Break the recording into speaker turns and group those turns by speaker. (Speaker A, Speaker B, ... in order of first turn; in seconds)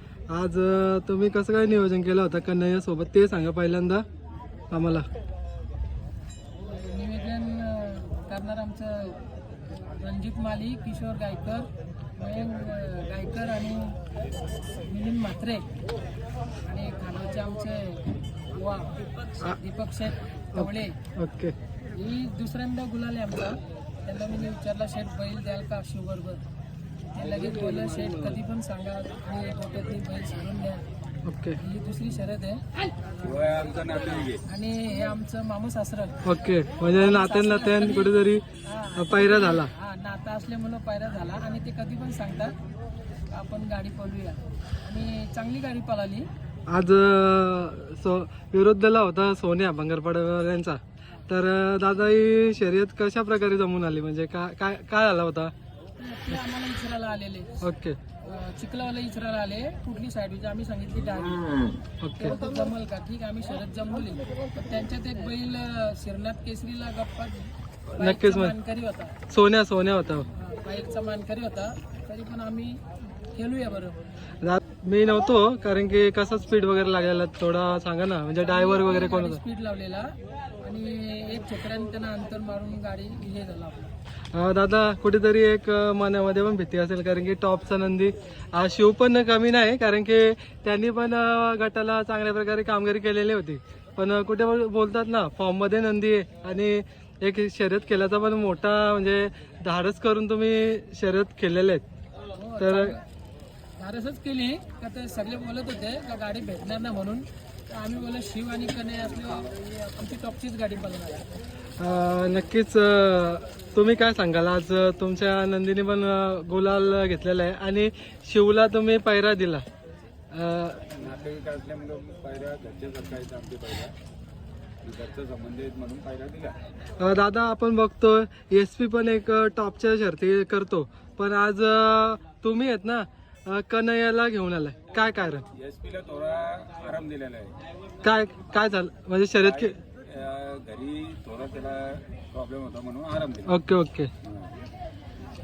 Speaker A: 0.3-4.0, 4.7-5.1, 20.6-21.5, 27.4-28.4, 31.2-31.6, 36.2-38.4, 39.0-39.7, 46.7-55.5, 57.6-58.0, 62.0-62.4, 67.9-68.5, 69.3-70.3, 74.4-79.4, 84.3-101.8, 102.6-103.0, 111.8-119.6, 120.3-121.0, 127.0-135.4, 138.0-139.8, 143.4-144.1
Speaker B: 6.6-14.0, 14.7-15.7, 16.6-21.0, 21.9-26.4, 27.1-30.8, 31.6-33.4, 34.5-36.2, 37.0-42.5, 43.3-46.3, 56.0-57.6, 58.2-69.2, 70.3-74.0, 78.4-83.9, 102.3-103.0, 103.8-111.2
Speaker C: 33.2-34.4, 121.0-123.9, 124.8-126.6, 135.5-137.6, 139.4-143.5, 144.2-144.5